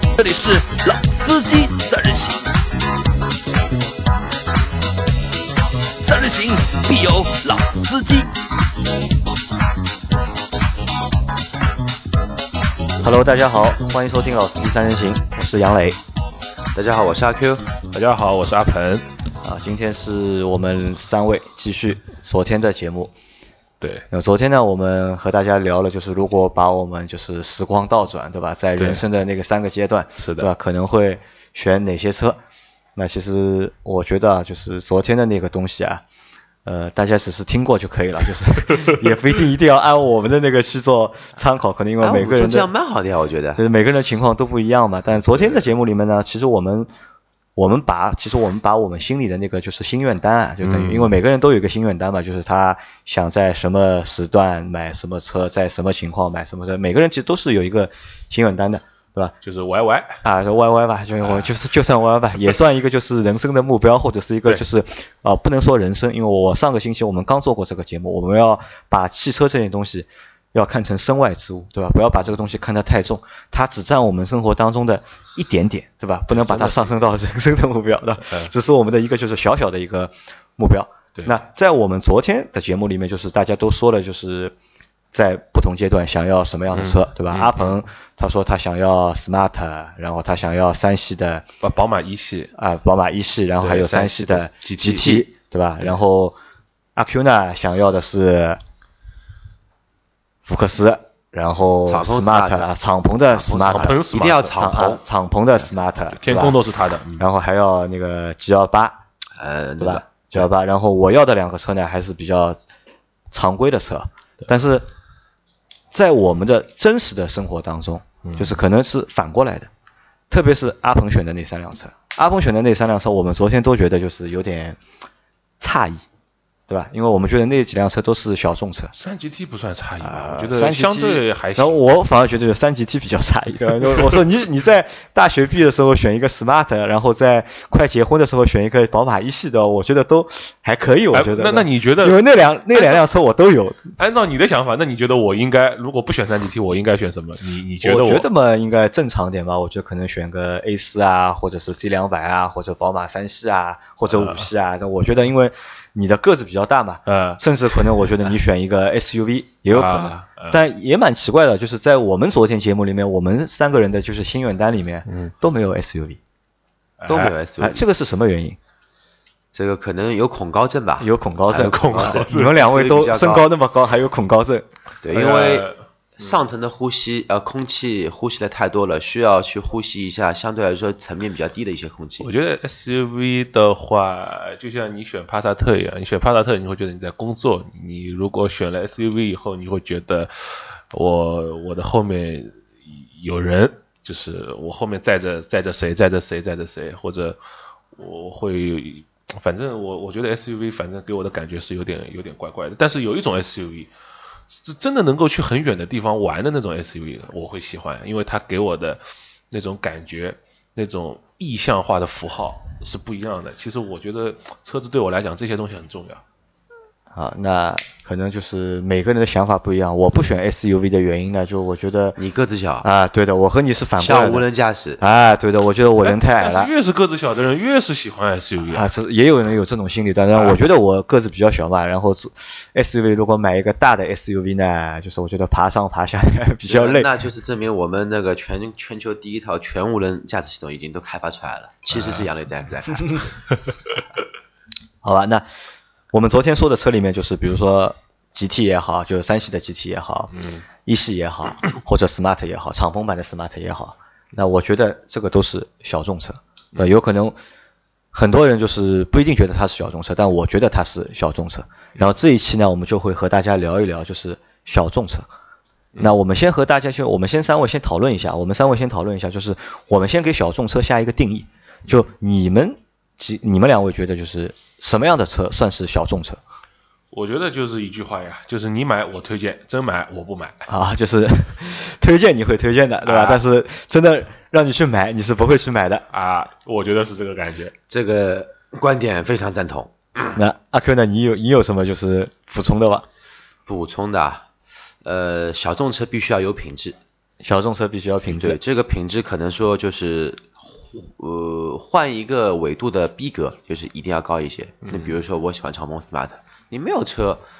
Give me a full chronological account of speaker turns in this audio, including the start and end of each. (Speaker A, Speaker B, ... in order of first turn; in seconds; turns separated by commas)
Speaker A: 0.2-2.5, Speaker A: 6.0-8.3, Speaker B: 13.0-16.0, Speaker C: 16.7-17.6, Speaker D: 17.9-19.1, Speaker B: 19.4-23.1, Speaker B: 24.1-32.4, Speaker D: 28.8-29.1, Speaker D: 30.2-30.5, Speaker B: 33.0-36.0, Speaker B: 36.6-42.7, Speaker C: 42.0-43.6, Speaker B: 43.5-46.9, Speaker D: 45.2-45.7, Speaker B: 47.5-59.3, Speaker D: 50.7-51.0, Speaker D: 59.4-60.2, Speaker B: 60.2-84.5, Speaker D: 61.2-61.5, Speaker D: 76.3-77.0, Speaker D: 78.2-78.5, Speaker B: 85.1-91.4, Speaker D: 86.7-87.8, Speaker D: 91.6-92.5, Speaker B: 92.5-96.4, Speaker D: 93.6-95.2, Speaker C: 94.8-95.2, Speaker B: 97.0-98.6, Speaker B: 100.4-106.6, Speaker C: 101.9-102.7, Speaker C: 103.4-105.0, Speaker D: 103.5-104.8, Speaker D: 106.1-107.3, Speaker B: 107.2-109.0, Speaker C: 109.4-110.5, Speaker B: 109.8-112.6, Speaker B: 113.3-114.9, Speaker B: 115.9-119.7, Speaker D: 118.2-118.6, Speaker B: 120.3-124.8, Speaker B: 125.6-126.0, Speaker B: 126.7-128.9, Speaker D: 128.9-131.8, Speaker B: 130.0-143.9, Speaker D: 141.1-143.1, Speaker D: 144.0-148.3, Speaker B: 147.8-166.2, Speaker D: 154.1-154.5, Speaker D: 157.1-158.1, Speaker D: 159.7-160.6, Speaker D: 165.1-165.3, Speaker D: 167.0-167.3, Speaker C: 167.1-167.8, Speaker B: 167.6-168.6, Speaker C: 169.5-173.5, Speaker B: 171.0-174.7, Speaker D: 171.5-172.7, Speaker C: 175.0-175.7, Speaker D: 175.1-176.4, Speaker C: 176.2-182.3, Speaker D: 182.2-197.4, Speaker D: 197.9-203.9, Speaker D: 204.5-216.2, Speaker B: 217.1-222.2, Speaker C: 222.2-222.9, Speaker B: 222.8-224.5, Speaker C: 224.0-225.0, Speaker B: 225.0-226.7, Speaker D: 226.0-228.9, Speaker B: 228.7-237.1, Speaker D: 230.3-230.6, Speaker C: 236.7-243.4, Speaker D: 241.9-242.2, Speaker B: 245.0-245.5, Speaker B: 246.1-250.3, Speaker D: 250.3-250.7, Speaker B: 250.8-257.4, Speaker B: 258.1-265.3, Speaker B: 266.0-276.4, Speaker D: 277.1-280.7, Speaker B: 280.7-286.0, Speaker D: 283.1-283.4, Speaker D: 286.1-287.8, Speaker C: 287.9-290.4, Speaker B: 290.3-293.1, Speaker C: 293.7-294.5, Speaker C: 295.0-297.0, Speaker B: 297.4-298.6, Speaker C: 298.3-307.4, Speaker D: 304.8-305.2